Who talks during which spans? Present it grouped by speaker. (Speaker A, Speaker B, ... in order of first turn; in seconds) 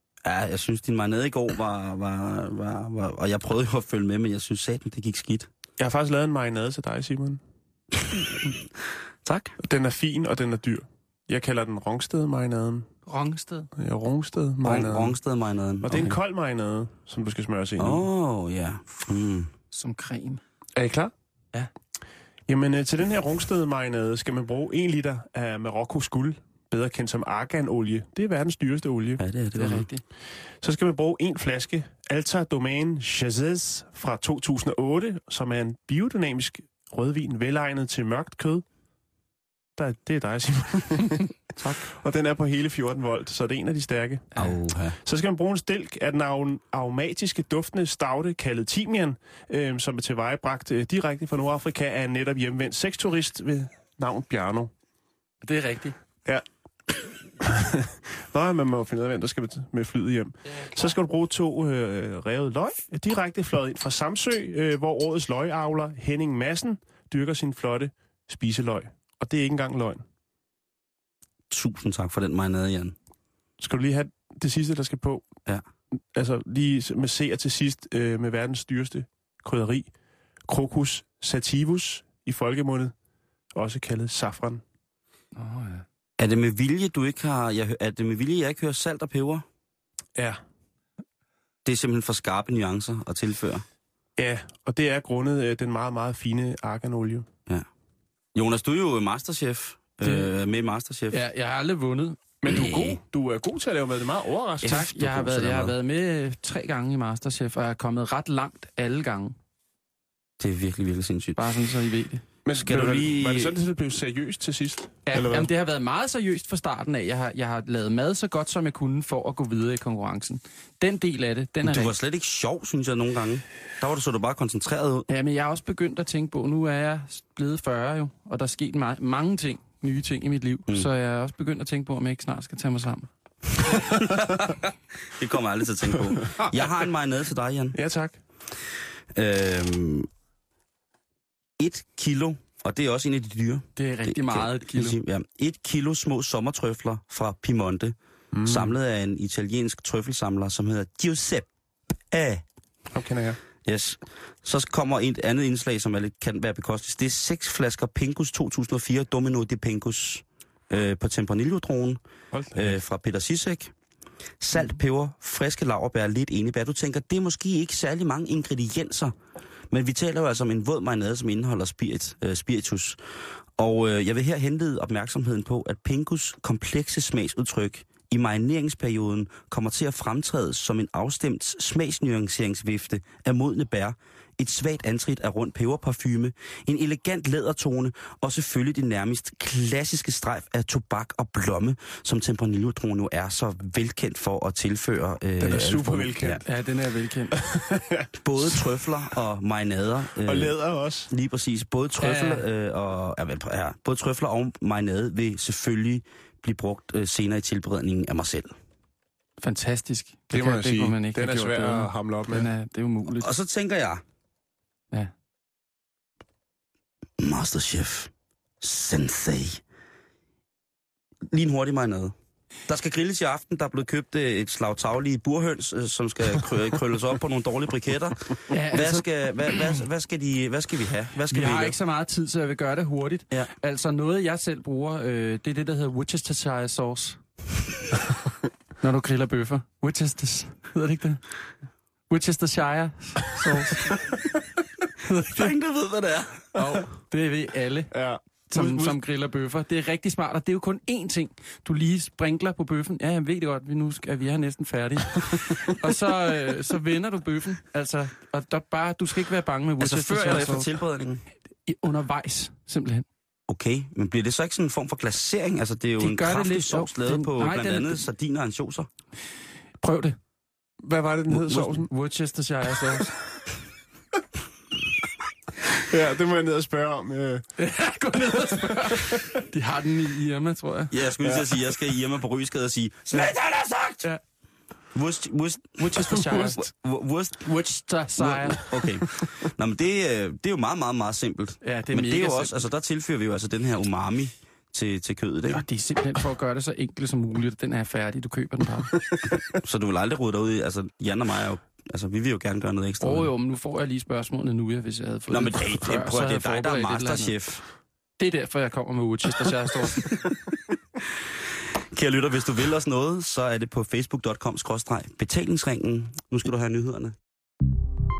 Speaker A: 0.2-5.5, 9.2-9.6, 14.6-16.2, 17.8-19.5, 29.2-29.9, 44.4-45.0, 71.5-73.0, 86.2-89.5, 91.6-93.6, 98.3-101.2, 102.5-103.0, 104.6-105.7, 110.4-111.4, 112.5-113.6, 121.6-125.1, 133.9-137.8, 139.1-140.1, 141.6-151.5, 152.1-152.4, 153.6-162.0, 162.5-163.7, 164.4-169.1, 169.7-173.0, 173.6-196.4, 198.2-200.6, 201.1-208.5, 213.1-214.0, 217.2-219.6, 221.3-222.1, 222.7-231.8, 245.2-246.5, 259.8-261.2, 263.5-268.9, 271.3-271.8, 280.9-284.1, 284.9-287.4, 288.2-295.7, 299.3-303.3, 305.3-307.6, 309.9-310.6, 311.2-317.2
Speaker B: 5.8-7.4, 9.6-12.9, 13.8-15.1, 15.8-18.1, 20.8-21.1, 22.5-29.2, 30.6-38.6, 39.8-44.3, 45.0-54.7, 57.4-70.0, 73.6-75.2, 76.1-79.9, 80.5-82.9, 83.5-84.6, 94.2-97.3, 102.4-104.9, 112.5-115.5, 137.7-138.2, 148.3-148.7, 152.9-153.4, 162.3-162.8, 195.4-196.4, 197.4-198.1, 200.2-201.1, 210.3-212.5, 246.6-246.8, 247.9-248.9, 270.8-271.9, 275.8-277.4
Speaker C: 13.1-13.7, 19.7-20.4, 29.6-30.0, 55.4-56.0, 60.5-60.9, 85.4-85.8, 100.0-100.3, 101.1-102.2, 104.6-109.4, 111.4-112.2, 115.1-121.9, 125.1-133.1, 143.8-145.0, 196.4-197.4, 202.0-202.4, 209.4-213.3, 228.5-229.1, 231.3-237.2, 238.8-241.2, 242.1-243.9, 245.0-245.5, 246.5-247.9, 248.5-260.7, 261.7-263.1, 266.0-268.1, 269.8-270.2, 271.9-273.1, 277.6-281.0, 285.8-286.7, 287.4-288.7, 291.6-292.6, 295.5-298.9, 303.0-307.3, 308.2-310.1